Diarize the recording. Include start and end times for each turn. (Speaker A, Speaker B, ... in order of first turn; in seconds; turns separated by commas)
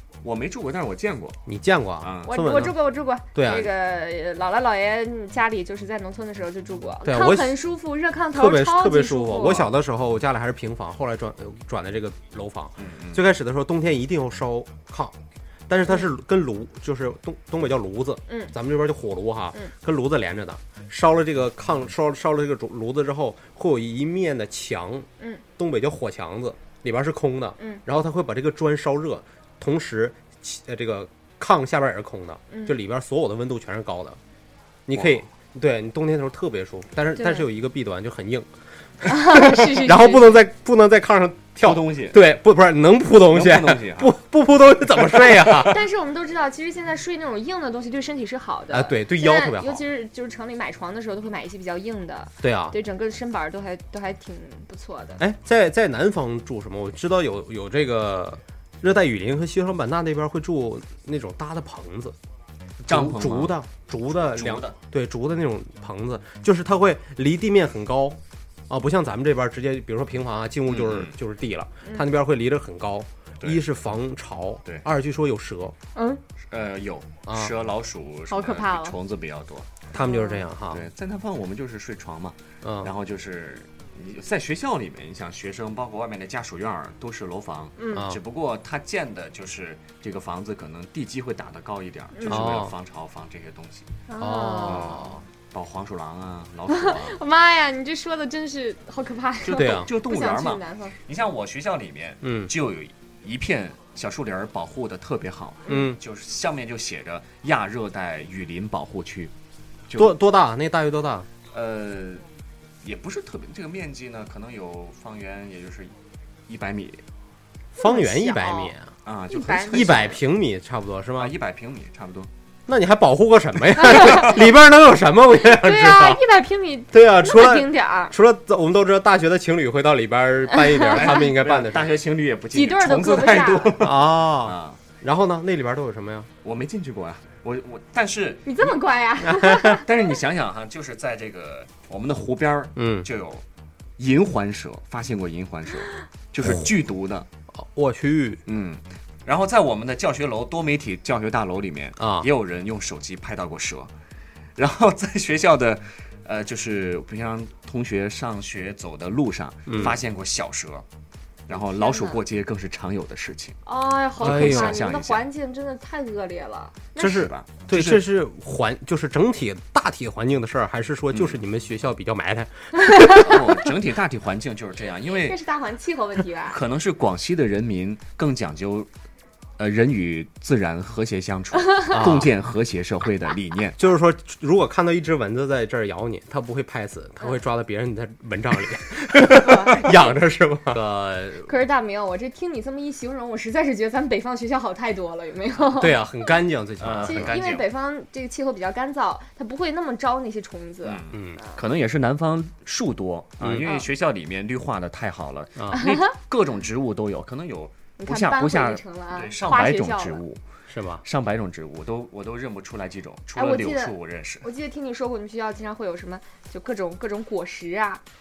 Speaker A: 0.2-1.4, Speaker B: 1.5-2.8, Speaker A: 2.0-2.3, Speaker C: 2.2-9.7, Speaker B: 3.3-3.7, Speaker B: 7.0-7.6, Speaker B: 8.3-15.2, Speaker A: 12.8-13.3, Speaker B: 15.7-34.2, Speaker C: 18.3-18.5, Speaker C: 32.5-32.8, Speaker B: 34.9-38.5, Speaker A: 34.9-35.2, Speaker C: 37.2-37.5, Speaker B: 39.0-45.8, Speaker C: 39.0-40.4, Speaker A: 41.6-42.2, Speaker A: 43.3-44.1, Speaker C: 45.6-55.2, Speaker B: 48.7-49.8, Speaker B: 52.4-52.8, Speaker B: 55.2-62.2, Speaker A: 62.8-63.6, Speaker B: 62.9-68.2, Speaker A: 64.3-64.8, Speaker B: 68.7-75.8, Speaker A: 70.7-71.2, Speaker C: 76.0-76.2, Speaker A: 76.5-79.8, Speaker B: 77.3-77.5, Speaker C: 78.3-79.0, Speaker B: 79.9-80.8, Speaker C: 80.0-80.5, Speaker A: 80.7-93.9, Speaker B: 82.6-82.9, Speaker C: 87.8-88.1, Speaker B: 87.9-88.2, Speaker C: 92.1-92.5, Speaker B: 92.2-92.8, Speaker C: 94.1-95.0, Speaker B: 94.2-95.2, Speaker A: 94.7-97.2, Speaker C: 96.7-101.0, Speaker A: 99.4-109.3, Speaker B: 99.5-99.9, Speaker B: 102.2-102.5, Speaker B: 105.7-106.0, Speaker A: 109.9-110.2, Speaker B: 110.0-111.3, Speaker A: 111.5-112.2, Speaker A: 112.8-115.9, Speaker A: 116.5-117.0, Speaker B: 117.8-121.3, Speaker C: 117.8-118.7, Speaker A: 119.1-120.2, Speaker C: 119.3-120.2, Speaker A: 121.2-122.3, Speaker B: 122.7-126.2, Speaker C: 123.9-124.4, Speaker C: 125.4-128.2, Speaker B: 126.9-132.0, Speaker C: 130.5-131.2, Speaker A: 130.9-134.8, Speaker C: 132.5-133.8, Speaker B: 133.5-136.3, Speaker A: 136.4-138.5, Speaker C: 138.4-139.9, Speaker B: 139.2-139.8, Speaker A: 139.8-143.4, Speaker B: 142.8-143.1, Speaker A: 144.0-147.3, Speaker B: 146.4-146.7, Speaker B: 147.5-148.4, Speaker A: 148.5-153.9, Speaker B: 152.0-152.3, Speaker A: 154.6-160.8, Speaker B: 159.7-160.0, Speaker A: 161.5-163.6, Speaker C: 161.5-162.2, Speaker C: 163.6-167.1, Speaker B: 164.2-164.9, Speaker A: 164.2-165.3, Speaker A: 167.0-168.1, Speaker B: 167.0-173.4, Speaker A: 171.1-171.4, Speaker C: 172.8-173.2, Speaker A: 173.1-175.4, Speaker C: 175.1-176.6, Speaker A: 176.5-178.9, Speaker A: 179.6-183.8, Speaker B: 181.9-182.3, Speaker B: 183.8-191.5, Speaker C: 189.4-189.9, Speaker C: 191.4-196.3, Speaker B: 195.7-197.4, Speaker A: 196.8-197.7, Speaker C: 197.0-201.6, Speaker A: 200.8-210.4, Speaker B: 201.1-201.4, Speaker B: 203.4-203.7, Speaker B: 205.6-205.9, Speaker C: 208.0-210.2, Speaker B: 210.7-211.0, Speaker A: 211.0-214.5, Speaker C: 213.3-218.0